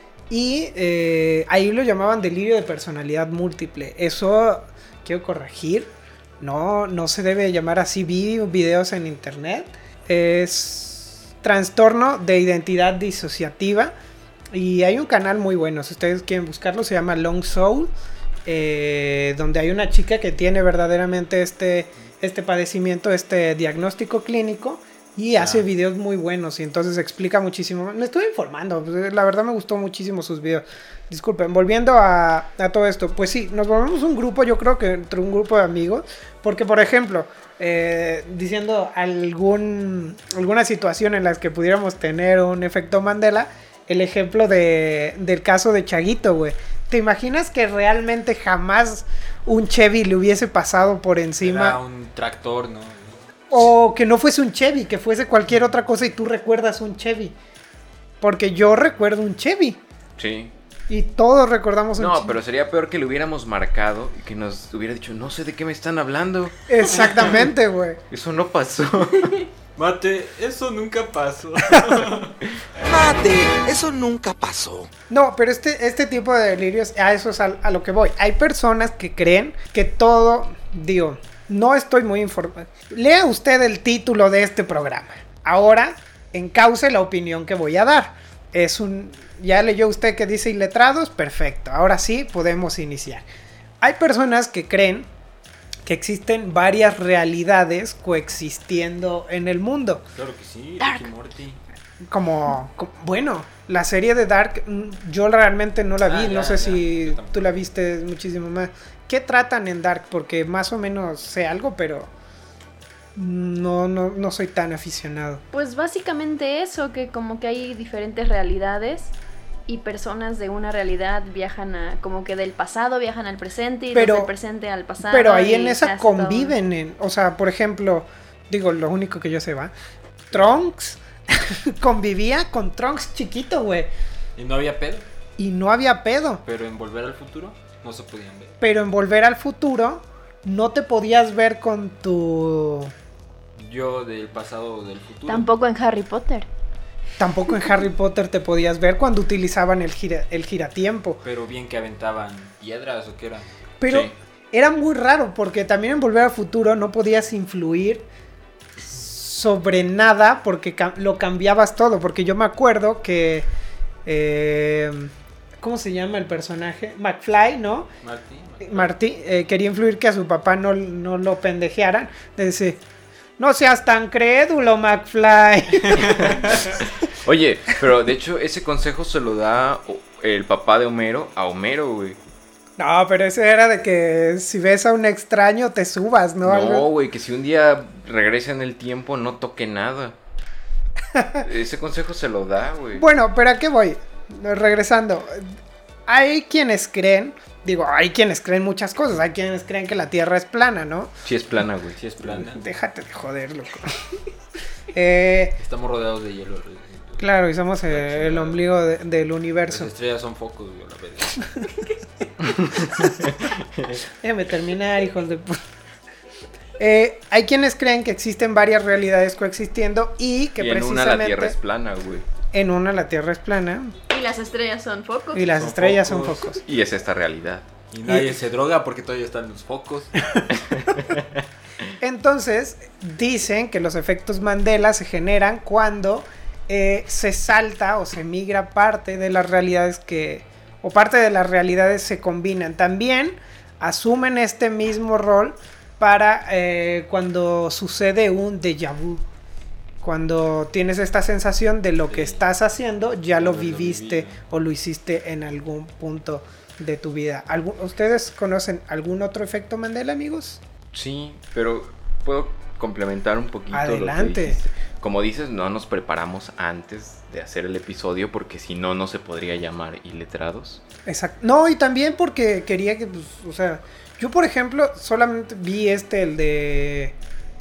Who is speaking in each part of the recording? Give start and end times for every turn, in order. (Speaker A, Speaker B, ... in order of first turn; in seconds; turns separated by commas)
Speaker A: 0.3-13.9, Speaker A: 14.5-17.9, Speaker A: 18.4-51.8, Speaker B: 25.3-25.7, Speaker B: 51.4-53.2, Speaker A: 53.5-57.4, Speaker A: 58.2-59.8, Speaker C: 60.2-60.5, Speaker A: 60.9-62.4, Speaker C: 62.0-66.7, Speaker A: 66.7-68.0, Speaker C: 68.1-69.4, Speaker B: 69.8-72.4, Speaker D: 72.9-74.9, Speaker A: 75.1-93.2, Speaker A: 93.8-95.1, Speaker A: 95.8-100.0, Speaker B: 100.1-101.6, Speaker A: 102.1-112.1, Speaker B: 106.0-107.6, Speaker A: 113.2-115.4, Speaker E: 115.5-119.1, Speaker E: 119.7-126.6, Speaker A: 123.9-124.3, Speaker A: 125.0-129.7, Speaker A: 130.3-133.9, Speaker B: 130.3-130.7, Speaker B: 134.4-135.1, Speaker A: 135.4-136.4, Speaker B: 136.4-138.6, Speaker A: 138.6-142.9, Speaker B: 143.6-145.5, Speaker E: 145.3-146.5, Speaker A: 147.2-151.2, Speaker B: 151.2-153.5, Speaker A: 153.8-158.1, Speaker C: 153.9-154.2, Speaker A: 158.8-163.5, Speaker A: 164.1-167.9, Speaker B: 168.0-168.9, Speaker A: 168.6-172.8, Speaker A: 173.4-176.9, Speaker B: 176.0-176.7, Speaker C: 176.4-182.2, Speaker A: 182.8-186.9, Speaker C: 186.4-190.2, Speaker A: 191.1-191.5, Speaker C: 191.4-193.1, Speaker A: 192.9-195.5, Speaker A: 196.1-201.1, Speaker C: 201.2-202.0, Speaker B: 202.0-202.6, Speaker A: 202.4-204.1, Speaker A: 204.9-205.6, Speaker B: 205.6-207.3, Speaker A: 207.2-209.9, Speaker B: 207.9-208.7, Speaker B: 209.7-211.5, Speaker A: 212.7-213.2, Speaker C: 213.4-214.0, Speaker A: 214.2-215.6, Speaker A: 216.8-221.6, Speaker C: 220.6-222.3, Speaker A: 222.5-224.0, Speaker E: 224.1-225.5, Speaker A: 225.3-226.6, Speaker B: 225.4-226.5, Speaker C: 226.7-227.7, Speaker B: 227.9-230.3, Speaker A: 228.1-228.4, Speaker C: 230.6-231.4, Speaker A: 232.0-249.2, Speaker A: 250.0-260.6, Speaker B: 252.1-252.5, Speaker B: 253.3-254.4, Speaker C: 260.9-270.8, Speaker A: 263.7-264.6, Speaker A: 271.1-277.2